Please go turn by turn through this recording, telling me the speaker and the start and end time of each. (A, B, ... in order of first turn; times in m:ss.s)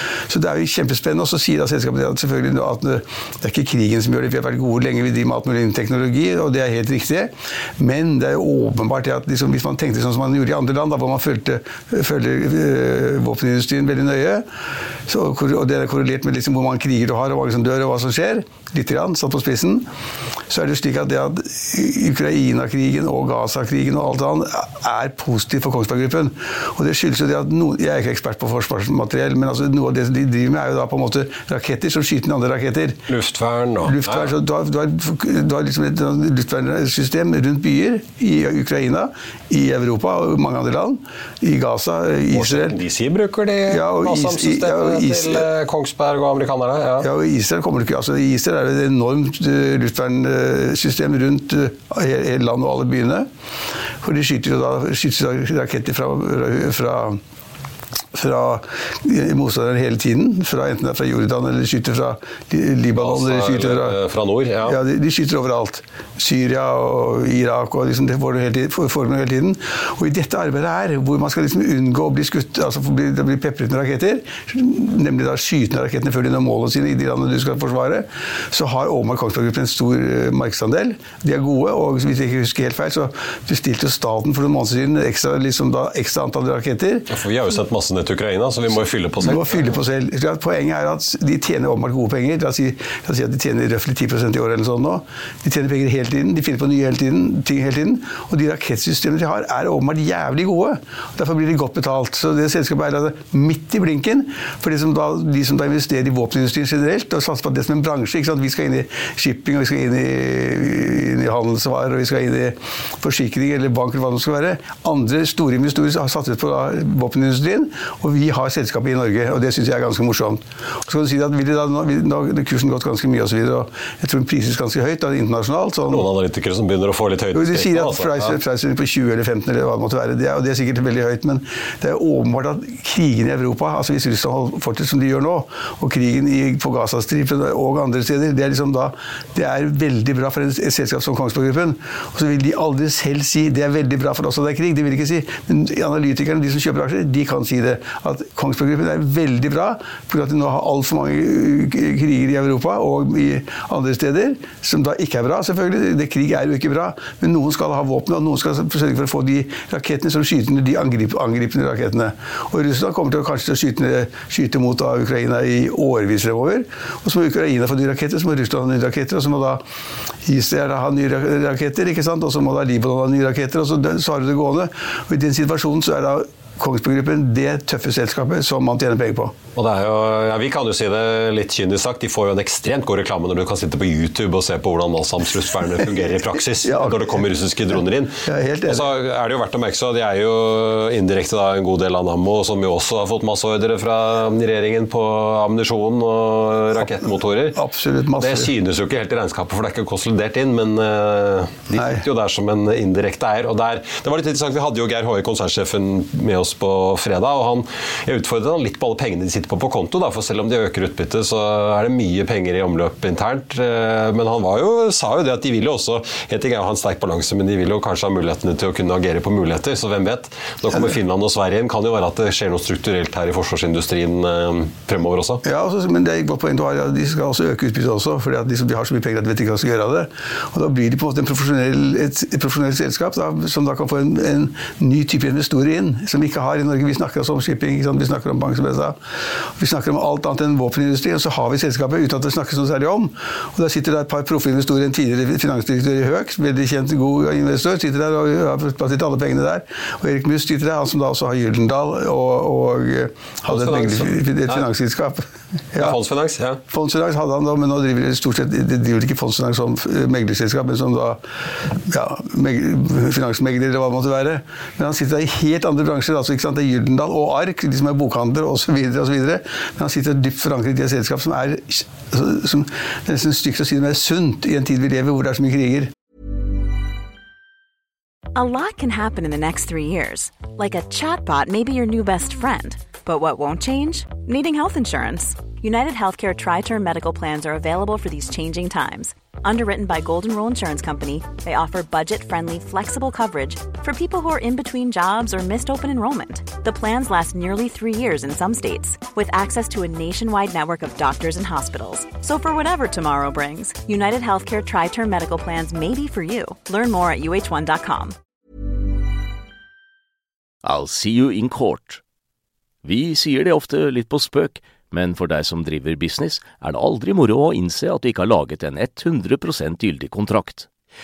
0:00.3-0:14.4 A
0:15.1-0:19.9 A
0:20.5-0:33.0 A
0:33.1-0:34.3 B
0:33.8-0:42.8 A
0:42.3-0:47.1 B
0:43.7-0:45.5 A
0:47.0-0:53.3 A
0:54.0-0:57.2 A
0:58.1-1:04.0 A
1:03.0-1:04.8 B
1:04.6-1:27.1 A
1:27.1-1:29.8 B
1:29.2-2:06.1 A
2:05.9-2:08.4 B
2:07.3-2:49.6 A
2:50.2-2:59.3 A
2:59.6-3:17.6 B
3:06.6-3:07.2 A
3:08.2-3:08.9 A
3:17.5-3:18.5 A
3:18.2-3:45.4 B
3:21.7-3:22.0 A
3:45.4-3:59.0 A
3:59.6-4:16.0 A
4:13.5-4:14.6 B
4:15.8-4:16.6 B
4:16.7-4:21.2 A
4:21.9-4:35.9 A
4:38.3-5:08.1 C
5:10.6-5:12.0 D
5:12.8-5:20.7 D